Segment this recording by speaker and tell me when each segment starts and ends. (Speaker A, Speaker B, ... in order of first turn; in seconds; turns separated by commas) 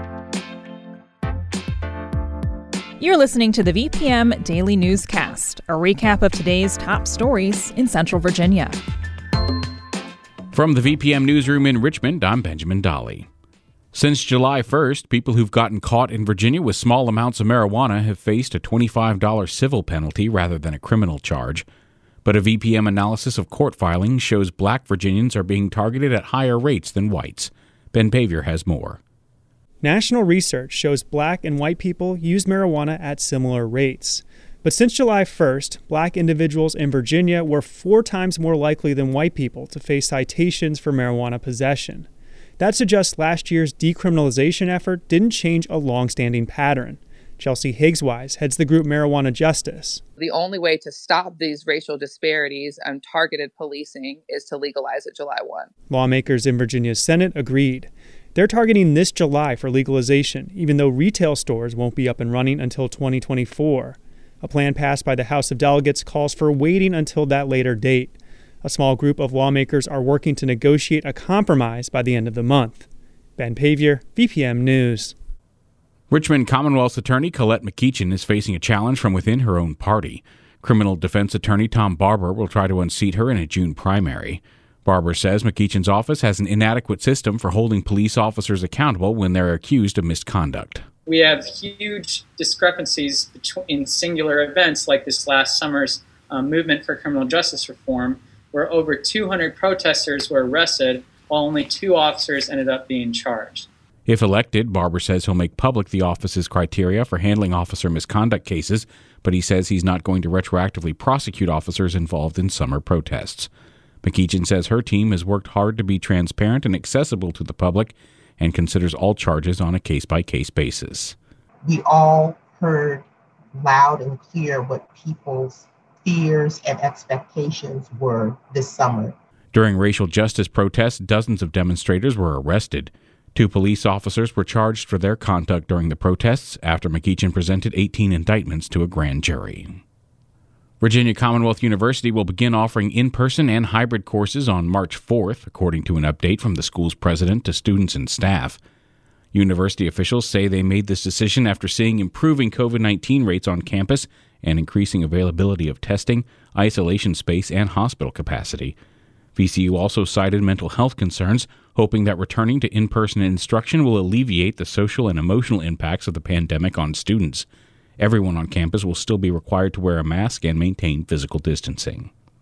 Speaker A: 3.0-8.7, Speaker B: 10.5-13.3, Speaker B: 13.9-21.6, Speaker B: 22.2-29.0, Speaker C: 29.8-42.1, Speaker C: 42.6-50.0, Speaker D: 50.2-55.7, Speaker C: 55.9-72.9, Speaker C: 73.4-75.1, Speaker B: 76.1-90.8, Speaker E: 91.0-103.7, Speaker B: 104.1-113.5, Speaker B: 114.0-121.2, Speaker F: 121.6-129.1, Speaker B: 129.5-139.8, Speaker B: 140.8-148.6, Speaker B: 149.3-158.8, Speaker B: 159.3-167.4, Speaker B: 168.0-172.1